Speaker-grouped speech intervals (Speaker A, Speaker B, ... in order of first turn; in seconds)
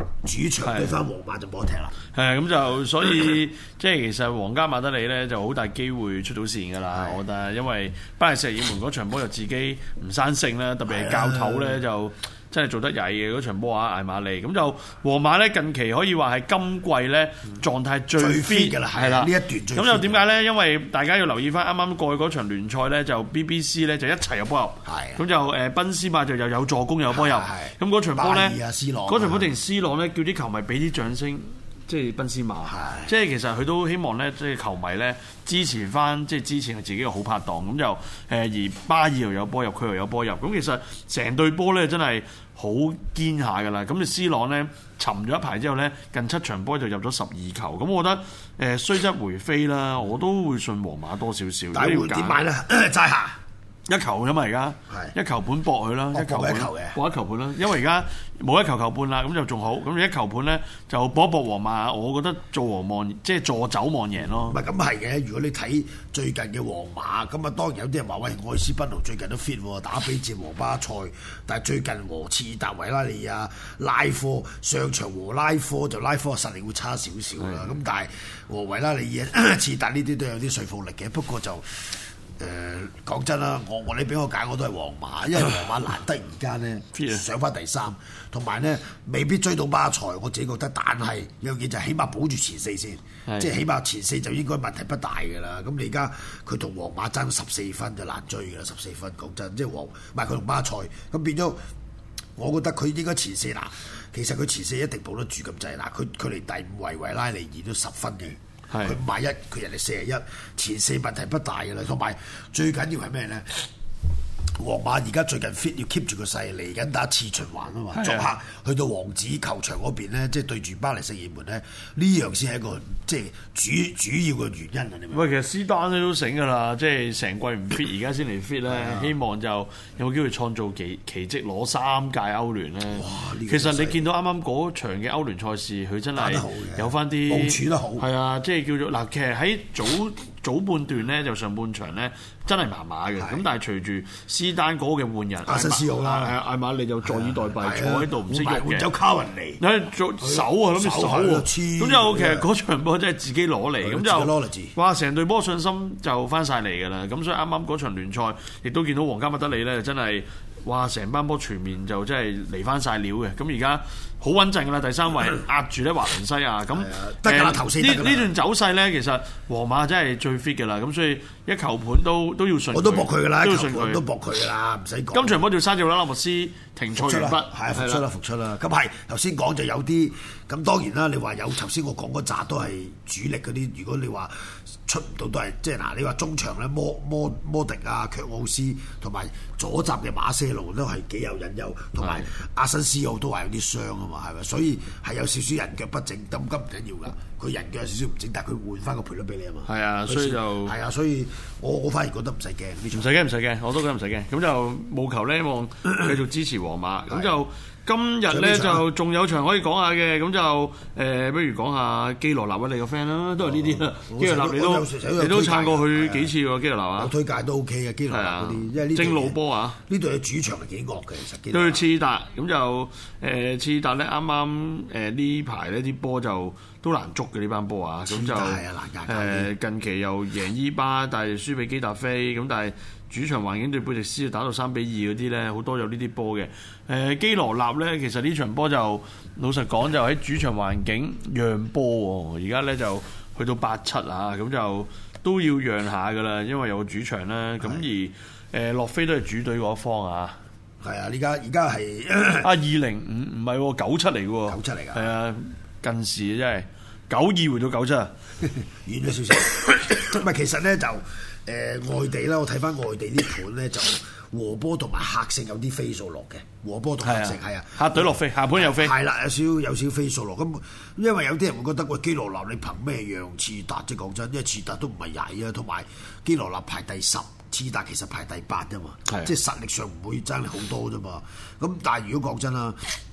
Speaker A: 0.2-1.9, 6.9-7.2, 10.8-11.8, 18.1-20.2, 24.8-25.2, 27.1-29.5, 32.6-33.1, 51.7-53.4, 54.9-55.1, 56.1-57.0, 64.4-101.6, 102.3-113.7, 114.6-125.3, 128.7-129.1, 132.9-134.0, 136.2-138.0, 145.4-146.3, 147.0-149.6, 150.2-152.5, 153.8-154.7, 166.7-168.3, 172.7-175.4, 176.9-203.1, 207.1-207.3, 208.3-208.8, 213.5-216.3, 217.0-221.8, 228.1-229.5, 250.8-252.5, 254.5-255.1, 258.4-282.9
Speaker B: 0.6-0.9, 2.1-52.4, 53.9-64.6, 77.4-77.7, 86.9-87.2, 93.2-93.5, 108.7-109.0, 117.9-118.3, 125.1-148.8, 149.6-174.0, 175.1-178.0, 192.0-192.3, 199.7-200.7, 202.9-217.1, 218.1-219.8, 221.5-250.4, 252.4-258.1, 267.0-268.9, 279.1-279.3